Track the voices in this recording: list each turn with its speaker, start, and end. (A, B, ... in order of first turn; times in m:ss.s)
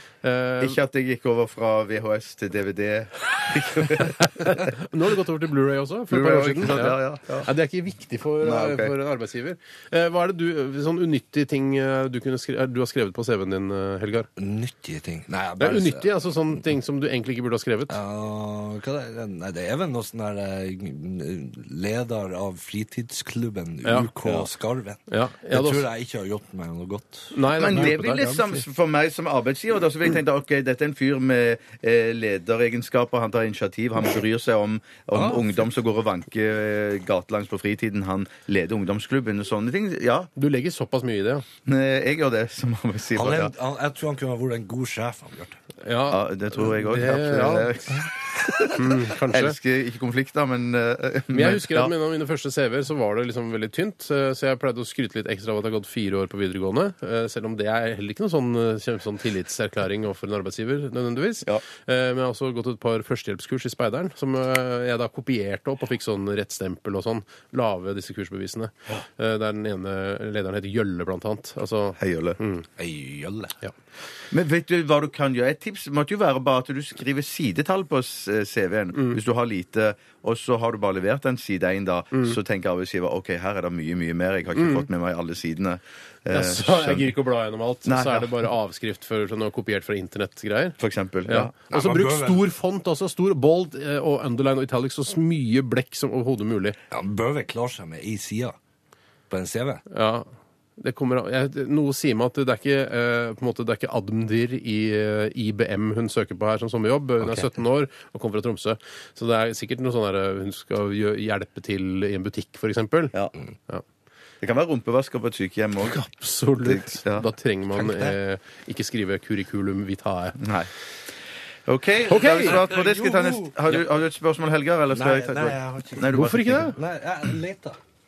0:00.2-0:00.8 A
0:00.6-0:04.7 B
0:04.2-0:14.3 A
0:06.1-0:07.5 B
0:08.4-0:08.9 B
0:14.4-0:16.1 C
0:15.6-0:18.0 A
0:17.9-0:28.6 C
0:23.8-0:24.1 A
0:25.1-0:25.8 A
0:27.3-0:28.4 A
0:27.5-0:40.3 B
0:35.1-0:35.6 C
0:40.4-0:41.4 A
0:41.7-0:43.5 B
0:43.1-0:45.6 C
0:45.8-0:47.8 A
0:46.1-0:51.9 B
0:48.7-0:49.6 A
0:51.3-1:12.6 A
1:12.0-1:12.4 B
1:12.8-1:13.6 C
1:14.3-1:27.1 B
1:24.6-1:24.8 A
1:26.3-1:36.8 A
1:27.9-1:28.3 B
1:30.8-1:31.5 B
1:31.7-1:32.4 C
1:36.9-1:38.6 C
1:39.3-1:39.8 C
1:39.9-1:53.1 A
1:54.4-1:56.0 B
1:55.8-2:00.4 A
1:56.6-1:57.3 B
1:57.7-1:58.2 C
2:00.4-2:00.7 B
2:01.7-2:06.7 B
2:02.1-2:02.6 A
2:02.3-2:03.8 C
2:04.9-2:07.8 C
2:06.1-2:06.8 A